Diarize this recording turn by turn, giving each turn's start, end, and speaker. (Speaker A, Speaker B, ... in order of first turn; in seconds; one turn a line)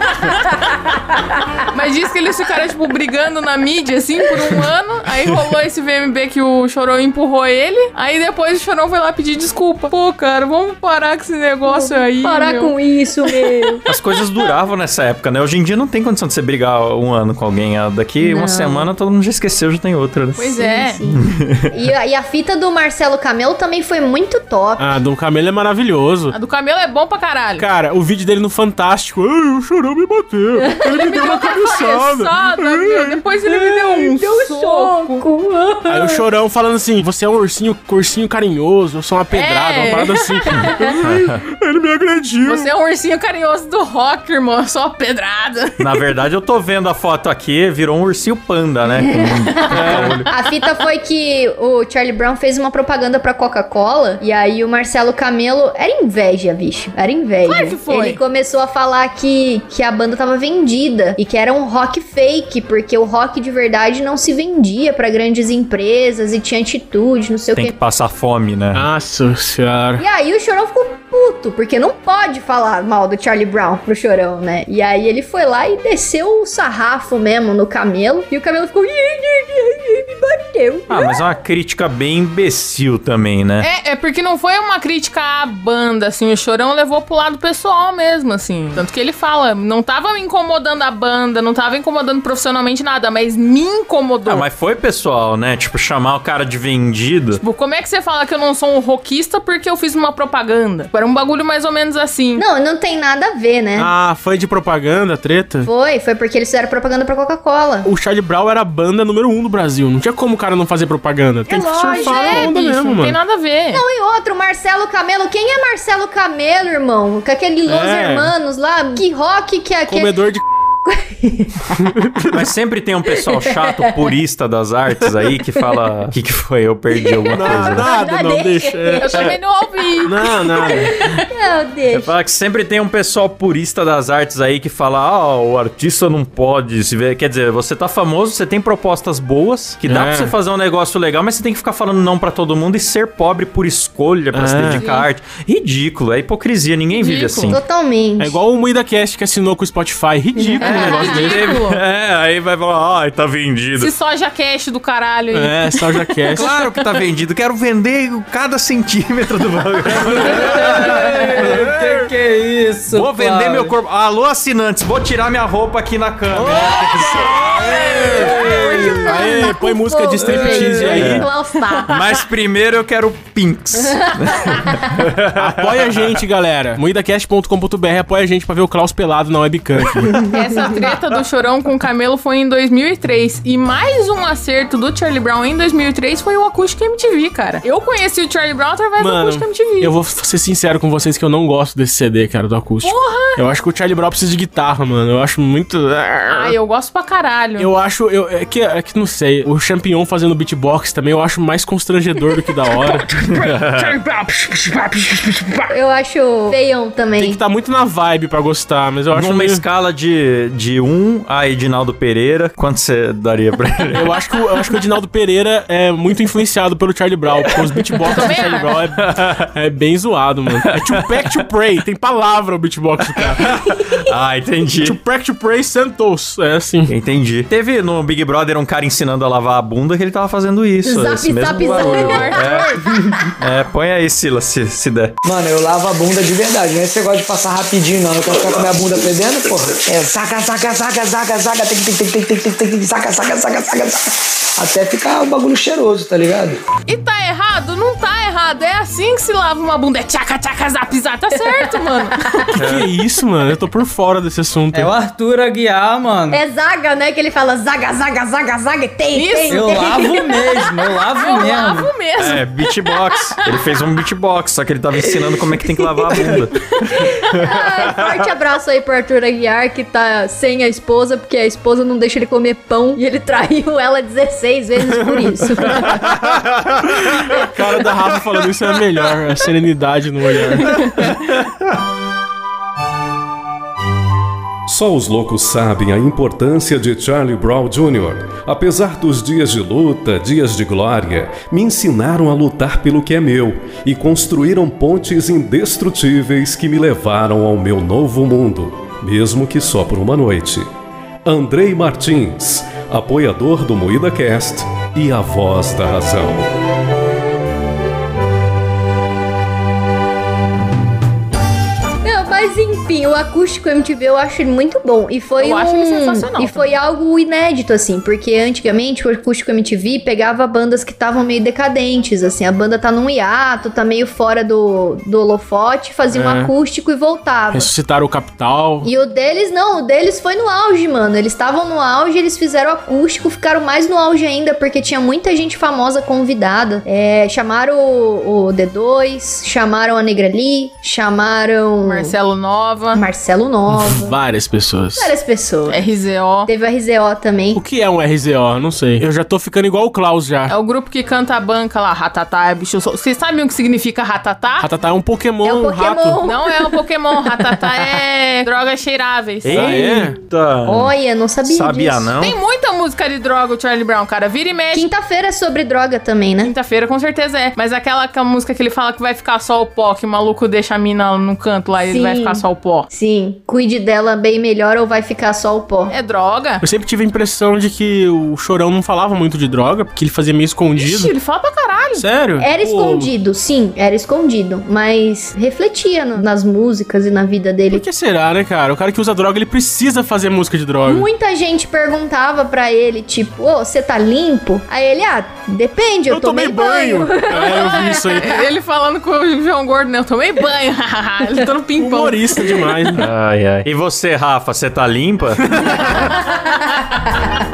Speaker A: 1.7-12.8
Speaker B: 11.7-13.8
Speaker C: 13.9-21.7
Speaker B: 18.2-18.9
Speaker A: 20.4-21.0
Speaker B: 20.6-24.9
Speaker D: 24.8-26.4
Speaker A: 26.3-27.7
Speaker D: 27.6-33.2
Speaker B: 30.6-31.3
Speaker A: 31.0-35.2
Speaker B: 33.6-36.2
Speaker D: 35.9-42.7
Speaker A: 39.3-40.8
Speaker C: 41.0-41.4
Speaker A: 42.5-45.9
Speaker C: 45.8-50.3
Speaker B: 48.9-67.8
Speaker D: 49.7-50.2
Speaker A: 57.5-58.2
Speaker C: 67.5-68.9
Speaker D: 68.7-70.0
Speaker B: 70.0-81.2
Speaker C: 80.9-83.7
Speaker A: 83.6-94.5
Speaker C: 94.3-97.4
Speaker A: 97.4-102.4
Speaker B: 102.4-103.9
Speaker D: 103.8-105.7
Speaker B: 105.6-107.9
Speaker D: 107.8-113.2
Speaker B: 111.5-112.5
Speaker A: 111.9-113.8
Speaker B: 113.7-120.2
Speaker D: 117.7-118.3
Speaker D: 119.9-120.4
Speaker B: 120.8-121.8
Speaker D: 121.8-122.4
Speaker C: 122.3-127.9
Speaker B: 123.2-124.1
Speaker B: 127.0-129.3
Speaker D: 127.3-129.3
Speaker A: 129.0-131.2
Speaker D: 130.0-131.0
Speaker B: 130.2-132.1
Speaker C: 131.9-147.6
Speaker D: 139.9-140.3
Speaker D: 144.3-144.8
Speaker A: 144.8-145.1
Speaker A: 146.9-147.5
Speaker B: 147.4-148.4
Speaker D: 148.2-151.5
Speaker B: 150.4-151.1
Speaker A: 150.6-151.8
Speaker C: 150.7-153.9
Speaker A: 153.8-156.8
Speaker D: 155.3-156.5
Speaker C: 156.3-161.8
Speaker E: 160.2-163.7
Speaker D: 161.4-162.0
Speaker C: 162.9-169.0
Speaker E: 166.3-169.5
Speaker D: 167.7-171.3
Speaker B: 168.1-171.9
Speaker C: 170.3-171.3
Speaker E: 170.4-171.0
Speaker C: 171.9-176.2
Speaker B: 173.9-174.8
Speaker D: 175.4-180.3
Speaker B: 180.1-180.8
Speaker A: 180.3-189.9
Speaker D: 189.0-196.6
Speaker A: 192.8-193.4
Speaker A: 196.3-197.7
Speaker D: 197.6-203.1
Speaker C: 203.3-203.9
Speaker B: 205.7-207.4
Speaker D: 207.2-209.6
Speaker C: 209.1-214.2
Speaker D: 213.9-223.4
Speaker A: 218.1-218.7
Speaker C: 219.0-219.5
Speaker C: 220.6-221.4
Speaker C: 223.2-225.0
Speaker B: 223.5-224.0
Speaker D: 224.8-226.9
Speaker C: 226.9-232.7
Speaker B: 230.8-233.3
Speaker A: 231.6-232.9
Speaker C: 233.4-235.2
Speaker F: 235.2-246.6
Speaker A: 246.9-252.4
Speaker B: 251.3-252.4
Speaker D: 252.5-254.9
Speaker C: 252.6-252.9
Speaker E: 254.7-256.4
Speaker B: 256.3-261.1
Speaker A: 259.1-259.8
Speaker E: 259.5-261.9
Speaker A: 261.1-263.2
Speaker C: 262.2-268.1
Speaker B: 265.0-276.1
Speaker D: 275.7-276.0
Speaker D: 277.4-281.1
Speaker C: 281.0-281.3
Speaker G: 284.7-300.7
Speaker G: 301.3-306.5
Speaker B: 312.0-327.7
Speaker A: 315.4-316.7
Speaker D: 326.1-326.5
Speaker D: 327.5-328.9
Speaker B: 328.8-342.1
Speaker A: 341.8-343.0
Speaker B: 342.9-344.1
Speaker D: 343.7-345.1
Speaker B: 345.0-345.8
Speaker A: 345.7-346.5
Speaker B: 346.5-347.6
Speaker D: 347.5-350.6
Speaker A: 350.5-354.7
Speaker D: 354.6-356.2
Speaker B: 355.4-356.8
Speaker A: 356.2-359.8
Speaker C: 359.4-360.9
Speaker D: 359.5-360.2
Speaker B: 360.6-362.1
Speaker C: 361.4-362.4
Speaker A: 362.2-364.9
Speaker B: 364.7-366.5
Speaker A: 366.4-372.9
Speaker B: 371.8-375.9
Speaker A: 375.9-376.6
Speaker D: 376.6-381.1
Speaker A: 380.8-382.0
Speaker D: 382.0-383.1
Speaker B: 382.4-387.9
Speaker D: 387.7-391.1
Speaker B: 390.8-398.4
Speaker D: 396.1-398.3
Speaker A: 397.3-402.9
Speaker D: 401.8-403.1
Speaker C: 403.0-405.9
Speaker D: 405.5-405.8
Speaker B: 405.6-407.4